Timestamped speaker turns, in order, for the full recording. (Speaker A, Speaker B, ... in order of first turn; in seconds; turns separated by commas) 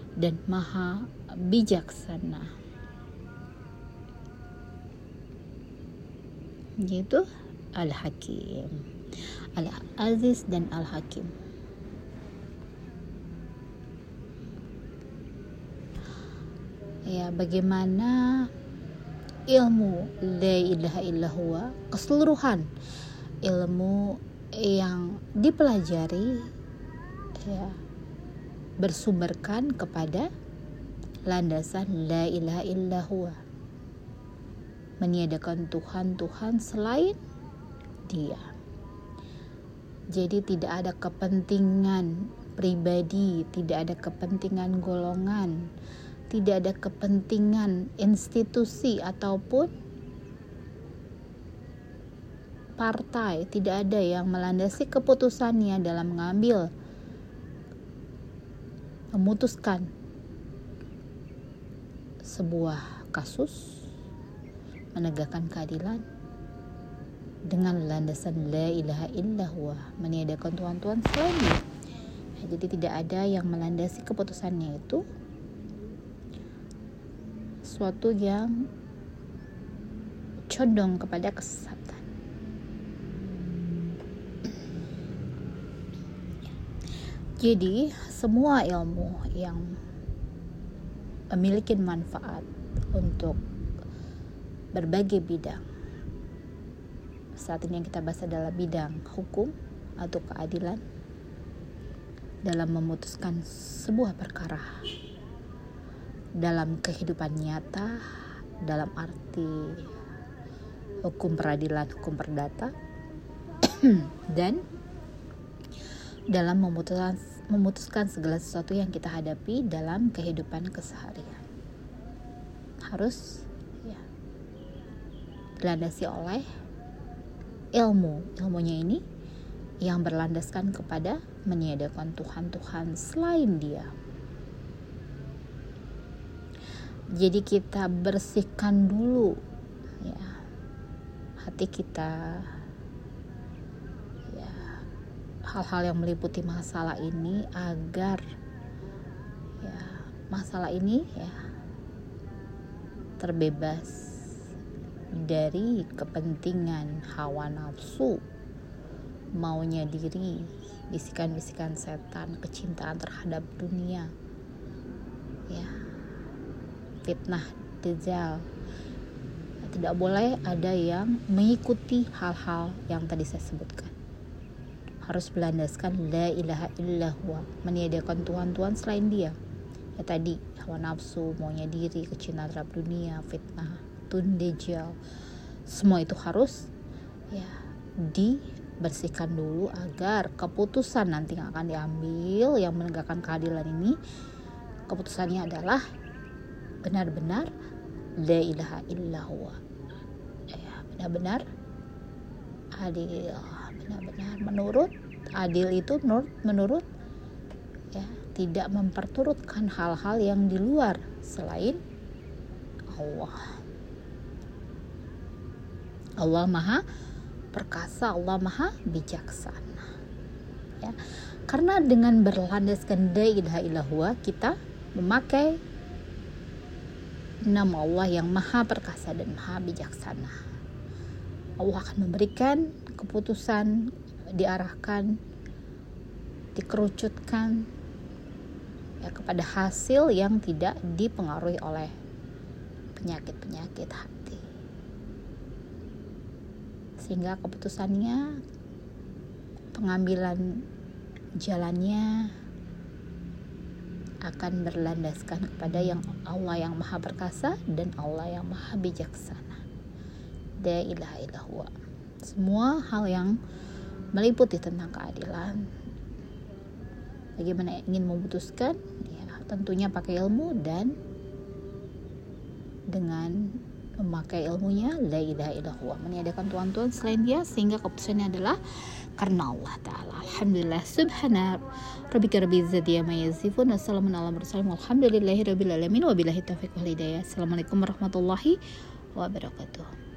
Speaker A: 0.2-2.5, Speaker A: 6.8-8.8, Speaker A: 9.5-11.3, Speaker A: 17.1-18.5, Speaker A: 19.5-22.7, Speaker A: 23.4-26.5, Speaker A: 27.4-27.8, Speaker A: 28.8-30.3, Speaker A: 31.2-33.4, Speaker A: 35.0-37.2, Speaker A: 38.1-38.5, Speaker A: 40.1-45.7, Speaker A: 46.3-49.7, Speaker A: 52.8-56.7, Speaker A: 59.1-59.9, Speaker A: 62.2-63.8, Speaker A: 64.9-66.0, Speaker A: 67.5-71.6, Speaker A: 72.4-75.0, Speaker A: 77.6-78.7, Speaker A: 80.5-82.0, Speaker A: 87.4-89.7, Speaker A: 91.3-93.4, Speaker A: 94.7-95.6, Speaker A: 97.4-100.8, Speaker A: 102.4-104.7, Speaker A: 106.3-108.0, Speaker A: 108.6-109.9, Speaker A: 111.0-112.7, Speaker A: 113.6-114.6, Speaker A: 116.3-121.4, Speaker A: 122.8-124.0, Speaker A: 125.6-126.5, Speaker A: 127.7-129.0, Speaker A: 129.8-133.9, Speaker A: 137.2-139.3, Speaker A: 140.0-140.4, Speaker A: 141.4-142.5, Speaker A: 144.3-144.7, Speaker A: 145.4-148.2, Speaker A: 149.6-151.4, Speaker A: 153.2-154.2, Speaker A: 155.1-158.2, Speaker A: 159.3-164.1, Speaker A: 167.0-168.5, Speaker A: 169.6-173.9, Speaker A: 175.0-179.3, Speaker A: 180.0-185.0, Speaker A: 185.7-186.7, Speaker A: 187.3-193.9, Speaker A: 194.9-195.8, Speaker A: 196.8-197.5, Speaker A: 198.2-199.6, Speaker A: 200.5-201.4, Speaker A: 202.8-206.8, Speaker A: 207.9-211.8, Speaker A: 212.9-213.5, Speaker A: 216.2-216.8, Speaker A: 217.5-219.9, Speaker A: 221.5-225.6, Speaker A: 227.4-230.3, Speaker A: 231.6-233.8, Speaker A: 234.3-235.1, Speaker A: 236.5-237.6, Speaker A: 239.0-241.9, Speaker A: 242.9-244.5, Speaker A: 247.0-248.2, Speaker A: 249.7-250.6, Speaker A: 251.4-252.3, Speaker A: 254.2-259.6, Speaker A: 260.6-261.7, Speaker A: 262.2-263.4, Speaker A: 264.1-265.7, Speaker A: 267.4-270.9, Speaker A: 272.9-278.6, Speaker A: 279.2-288.6, Speaker A: 289.1-289.9